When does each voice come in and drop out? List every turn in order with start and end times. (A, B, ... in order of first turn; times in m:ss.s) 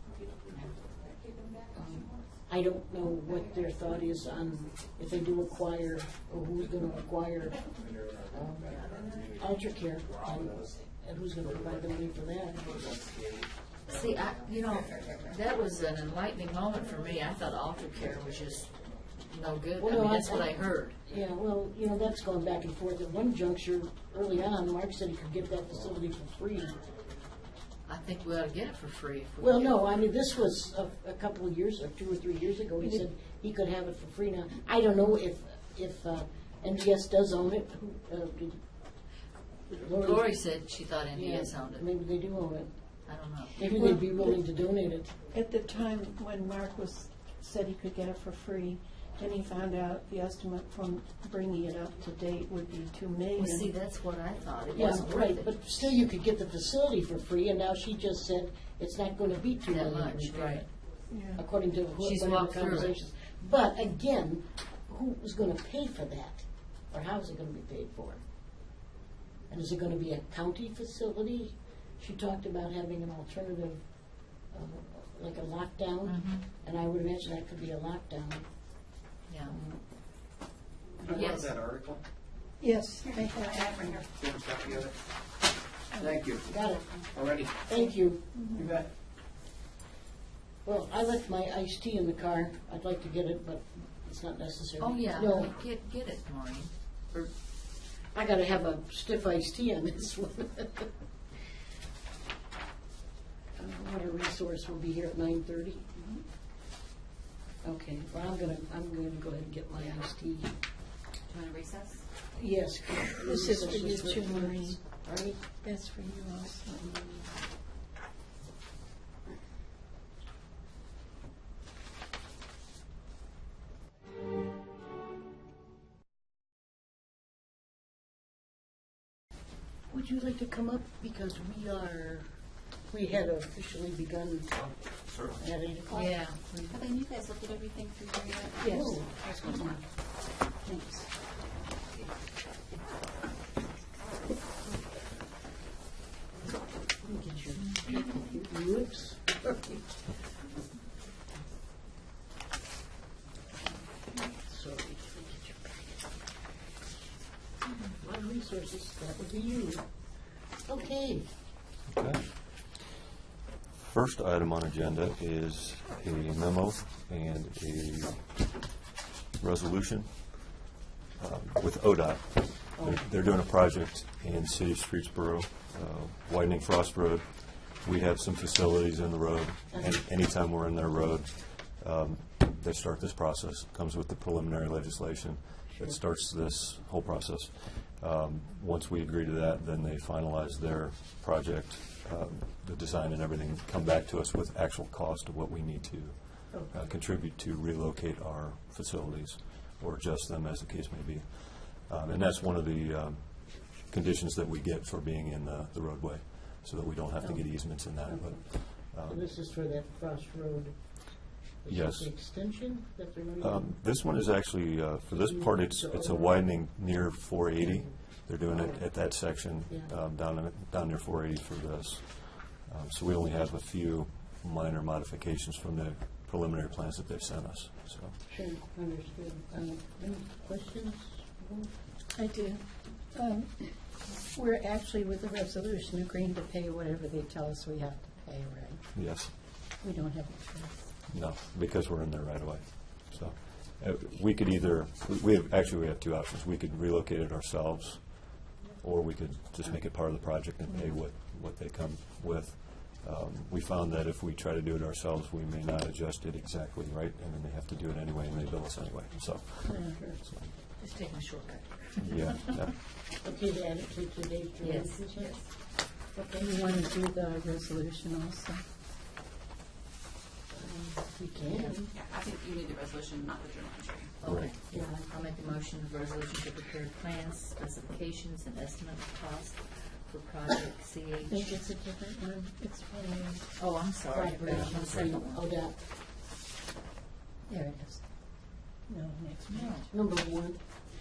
0:01.7-0:12.9 A
0:13.9-0:21.0 B
0:19.8-0:26.8 A
0:27.9-0:30.2 B
0:29.4-0:38.6 A
0:39.7-0:40.3 A
0:40.0-0:41.8 B
0:41.1-0:42.7 A
0:43.0-0:43.6 B
0:43.5-0:45.1 A
0:43.6-0:44.4 C
0:45.3-0:53.7 C
0:53.3-0:55.9 B
0:54.7-1:00.7 A
0:59.7-1:00.7 B
1:01.1-1:01.4 C
1:01.3-1:08.2 A
1:02.0-1:02.9 B
1:09.5-1:18.5 A
1:16.0-1:16.5 B
1:19.3-1:19.6 B
1:19.4-1:19.8 A
1:21.0-1:22.0 D
1:21.1-1:21.6 B
1:22.6-1:24.0 C
1:24.1-1:24.9 D
1:26.0-1:26.5 D
1:26.4-1:28.4 A
1:27.1-1:27.5 D
1:28.3-1:28.6 C
1:28.5-1:28.9 D
1:30.6-1:35.6 A
1:34.8-1:37.3 B
1:38.1-1:40.9 A
1:43.6-1:46.1 A
1:47.6-1:50.5 A
1:51.3-1:52.0 B
1:52.3-1:55.4 A
1:53.1-1:54.8 C
1:55.6-1:56.9 C
1:56.8-1:57.2 A
2:09.9-2:16.8 A
2:15.9-2:16.4 B
2:16.5-2:17.7 C
2:17.8-2:18.2 E
2:18.6-2:19.5 C
2:18.6-2:19.8 A
2:20.5-2:21.1 C
2:27.0-2:29.8 A
2:34.0-2:35.9 A
2:37.9-2:41.3 A
2:41.9-2:42.9 F
2:43.8-2:48.7 F
2:49.4-2:50.7 F
2:51.2-3:29.3 F
2:52.8-2:53.1 A
2:59.7-3:00.0 A
3:28.1-3:33.7 A
3:31.7-3:32.7 F
3:33.4-3:48.2 F
3:35.1-3:36.4 A
3:37.6-3:39.9 A
3:48.3-3:51.8 A
3:52.1-3:58.8 C
3:58.9-3:59.3 F
3:59.7-4:00.9 C
4:01.1-4:20.5 F
4:10.7-4:10.9 C
4:19.6-4:20.0 C
4:19.9-4:20.2 A
4:20.8-4:22.7 B
4:22.0-4:22.8 F
4:23.2-4:26.5 A
4:24.6-4:25.5 B
4:26.4-4:28.6 C
4:30.5-4:31.9 A
4:31.5-4:31.8 B
4:32.0-4:34.1 E
4:34.2-4:41.6 B
4:34.2-4:34.5 F
4:34.7-4:35.1 A
4:41.3-4:43.6 C
4:43.6-4:45.5 B
4:44.1-4:45.8 A
4:47.5-4:49.9 C
4:49.5-4:49.9 B
4:49.9-4:50.6 A